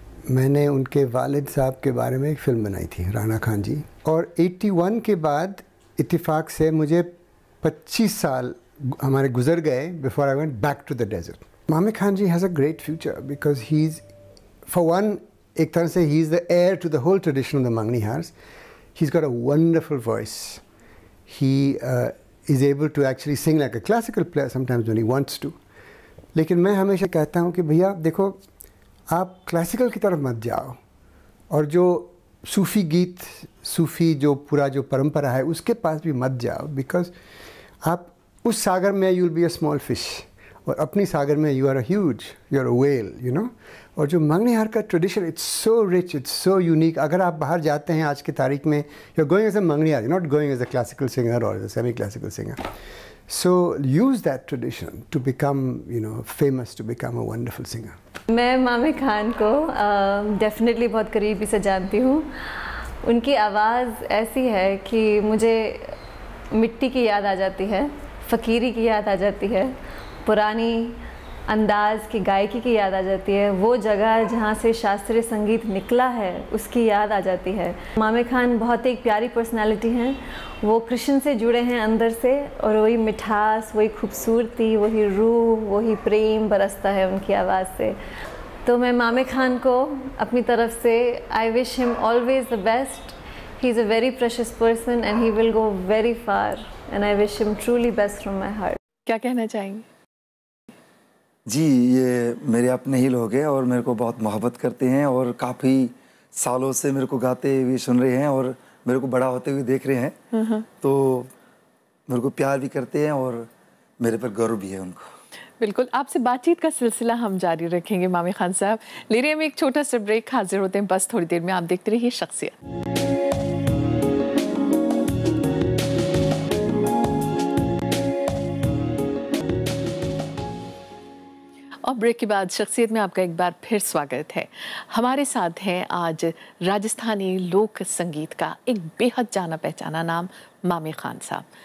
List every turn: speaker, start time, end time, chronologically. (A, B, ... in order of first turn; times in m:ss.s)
0:00.3-0:14.0 A
0:14.7-0:18.3 A
0:18.9-0:20.6 A
0:21.3-0:25.6 A
0:26.3-0:28.4 A
0:29.1-0:30.8 A
0:31.5-0:37.1 A
0:37.8-0:52.6 A
0:53.3-0:58.0 A
0:58.3-1:06.0 B
1:06.5-1:28.0 B
1:28.6-1:38.8 B
1:39.0-1:39.8 C
1:41.5-1:50.2 D
1:50.3-1:50.6 C
1:50.8-1:51.3 D
1:52.1-1:53.5 D
1:54.0-1:55.1 D
1:55.6-2:02.5 C
2:11.8-2:21.5 C